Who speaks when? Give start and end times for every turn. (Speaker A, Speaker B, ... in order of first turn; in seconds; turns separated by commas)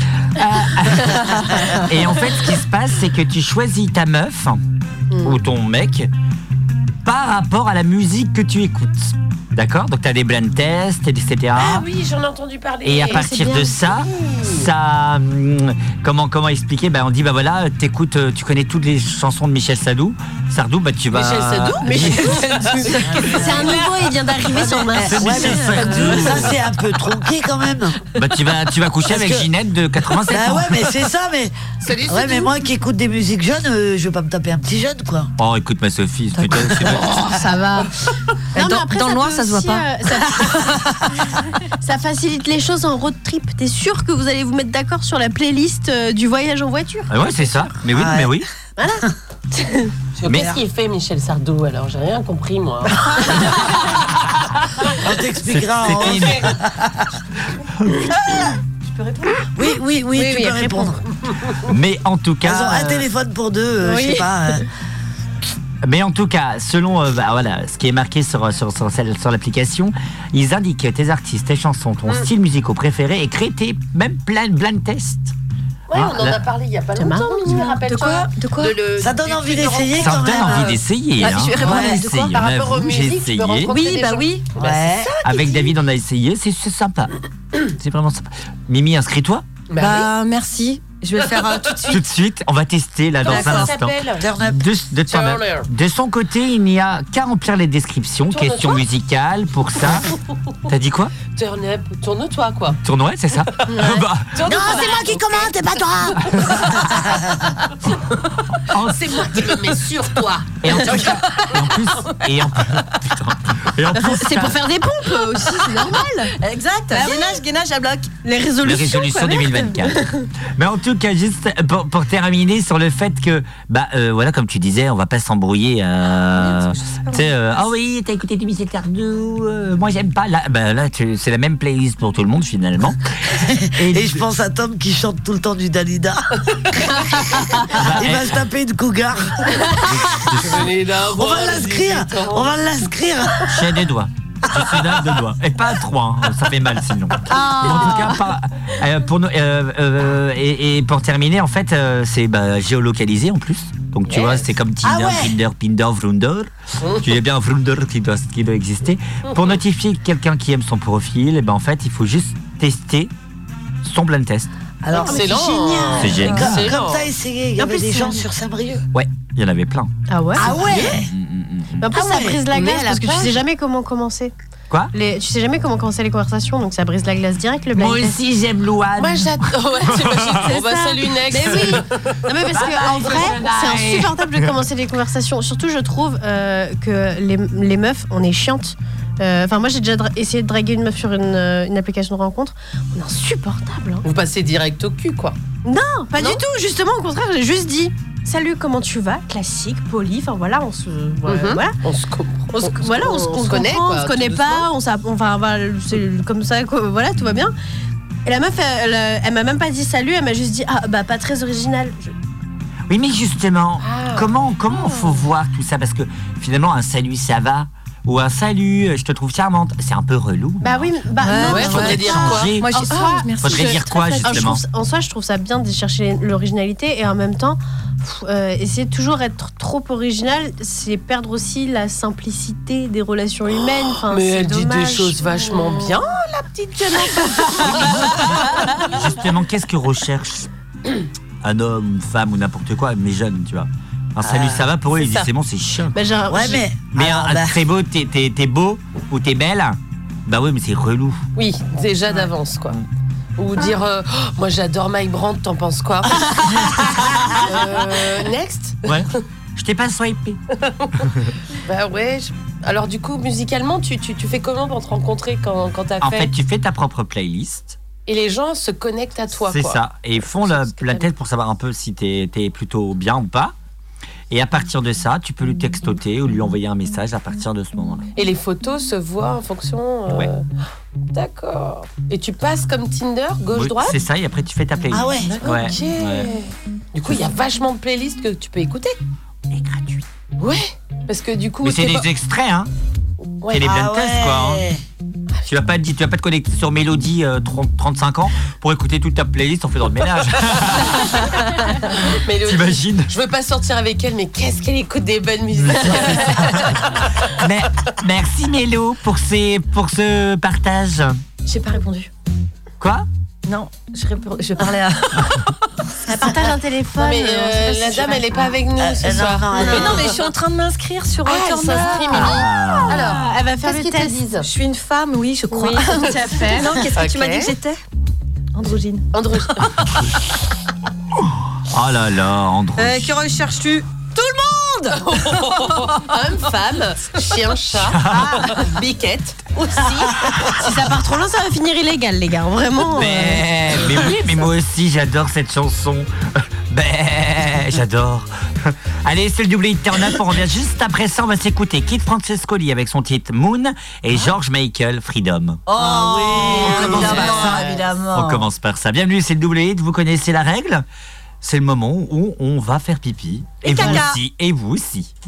Speaker A: 0.3-4.6, Speaker B: 5.1-5.4, Speaker A: 5.2-6.1, Speaker A: 7.0-11.9, Speaker C: 11.6-13.3, Speaker A: 12.8-22.5, Speaker B: 13.1-13.9, Speaker C: 13.9-14.7, Speaker C: 21.1-23.9, Speaker B: 21.9-26.4, Speaker D: 23.1-23.8, Speaker D: 24.9-28.1, Speaker A: 25.0-26.6, Speaker A: 28.1-30.9, Speaker D: 29.1-29.5, Speaker D: 30.3-35.3, Speaker C: 31.9-32.5, Speaker A: 35.4-37.4, Speaker B: 36.8-37.9, Speaker E: 38.5-41.0, Speaker B: 38.5-47.7, Speaker A: 47.1-48.5, Speaker D: 47.9-48.4, Speaker B: 48.8-49.9, Speaker C: 50.2-53.9, Speaker A: 50.3-50.5, Speaker D: 54.9-57.1, Speaker A: 55.5-56.5, Speaker C: 56.0-56.5, Speaker A: 57.5-58.1, Speaker E: 58.9-59.4, Speaker D: 59.5-61.0, Speaker B: 60.1-61.0, Speaker A: 61.6-63.1, Speaker D: 62.4-64.7, Speaker B: 63.8-64.6, Speaker A: 65.8-75.3, Speaker C: 75.9-80.6, Speaker A: 75.9-76.4, Speaker B: 77.0-77.7, Speaker E: 77.5-78.8, Speaker D: 79.0-80.8, Speaker A: 80.0-83.7, Speaker E: 81.2-82.3, Speaker C: 81.5-85.7, Speaker D: 81.6-82.0, Speaker E: 83.7-84.5, Speaker D: 84.6-85.2, Speaker A: 85.2-89.5, Speaker C: 89.7-90.1, Speaker E: 89.8-92.0, Speaker A: 91.9-100.1, Speaker C: 93.2-94.3, Speaker E: 93.3-93.7, Speaker D: 94.2-94.7, Speaker C: 95.1-95.7, Speaker C: 98.3-98.9, Speaker A: 100.7-101.1, Speaker C: 101.3-102.8, Speaker A: 102.8-104.3, Speaker C: 103.5-105.5, Speaker B: 103.8-104.0, Speaker D: 104.5-107.5, Speaker B: 104.7-105.1, Speaker C: 106.2-106.9, Speaker A: 108.6-109.5, Speaker C: 108.9-111.1, Speaker A: 110.6-114.6, Speaker B: 114.0-116.3, Speaker E: 114.1-114.9, Speaker E: 116.3-118.2, Speaker B: 116.9-117.4, Speaker B: 118.2-120.3, Speaker A: 118.6-134.2, Speaker E: 126.4-127.3, Speaker D: 133.3-140.5, Speaker A: 137.7-138.4, Speaker A: 139.9-140.6, Speaker C: 140.2-142.6, Speaker D: 141.0-143.5, Speaker A: 143.5-163.1, Speaker E: 147.3-148.2, Speaker C: 154.1-154.5, Speaker D: 154.8-155.4, Speaker C: 156.8-157.1, Speaker A: 163.8-164.5, Speaker D: 164.8-168.9, Speaker C: 164.9-167.1, Speaker B: 165.0-165.9, Speaker A: 166.0-166.7, Speaker B: 167.6-168.2, Speaker A: 168.9-169.9, Speaker B: 170.1-170.9, Speaker D: 170.3-171.1, Speaker A: 170.5-171.8, Speaker B: 171.8-174.3, Speaker D: 171.9-172.4, Speaker C: 172.5-173.4, Speaker B: 174.9-178.2, Speaker A: 177.8-179.5, Speaker C: 179.0-182.2, Speaker A: 180.1-180.4, Speaker B: 180.4-194.1, Speaker A: 182.5-184.4, Speaker C: 194.0-195.4, Speaker B: 195.7-201.8, Speaker C: 201.3-204.7, Speaker B: 202.5-207.6, Speaker B: 208.3-212.2, Speaker A: 212.9-224.6, Speaker C: 213.8-214.3, Speaker B: 220.6-236.0, Speaker E: 221.2-224.4, Speaker C: 221.4-222.6, Speaker C: 234.1-238.8, Speaker A: 237.6-240.5, Speaker A: 241.4-246.0, Speaker C: 244.9-245.3, Speaker B: 245.9-246.7, Speaker D: 246.3-247.7, Speaker A: 246.9-251.2, Speaker C: 251.4-252.8, Speaker C: 253.4-259.2, Speaker A: 256.9-257.4, Speaker A: 258.9-260.4, Speaker C: 260.6-261.1, Speaker C: 261.6-266.3, Speaker A: 266.0-267.8, Speaker C: 268.1-269.8, Speaker A: 269.5-273.6, Speaker C: 270.3-271.1, Speaker A: 274.3-278.1, Speaker C: 278.2-280.4, Speaker C: 281.1-284.0, Speaker A: 283.6-286.3, Speaker D: 284.9-285.4, Speaker C: 285.2-289.0, Speaker A: 289.5-290.1, Speaker C: 290.4-292.1, Speaker A: 291.6-292.7, Speaker A: 293.5-294.7, Speaker D: 293.6-294.8, Speaker A: 295.5-301.9, Speaker C: 300.9-301.2, Speaker C: 301.9-307.1, Speaker A: 302.4-303.1, Speaker A: 305.6-311.2, Speaker B: 311.5-312.1, Speaker A: 312.8-313.1, Speaker E: 313.5-315.5, Speaker B: 316.1-318.6, Speaker C: 317.0-320.2, Speaker D: 318.8-320.1, Speaker E: 319.6-323.4, Speaker C: 321.2-324.5, Speaker A: 322.1-323.0, Speaker B: 322.9-324.3, Speaker E: 324.3-327.8, Speaker B: 325.5-326.9, Speaker C: 325.6-327.5, Speaker E: 328.5-329.1, Speaker C: 329.1-329.9, Speaker A: 331.6-333.1, Speaker E: 332.8-336.2, Speaker C: 335.0-340.7, Speaker A: 337.8-338.4, Speaker E: 338.1-338.8, Speaker B: 340.5-344.1, Speaker A: 342.9-346.1, Speaker A: 346.7-355.6, Speaker E: 355.7-358.5, Speaker D: 355.8-357.8, Speaker A: 356.4-360.9, Speaker A: 361.4-365.1, Speaker E: 363.6-364.2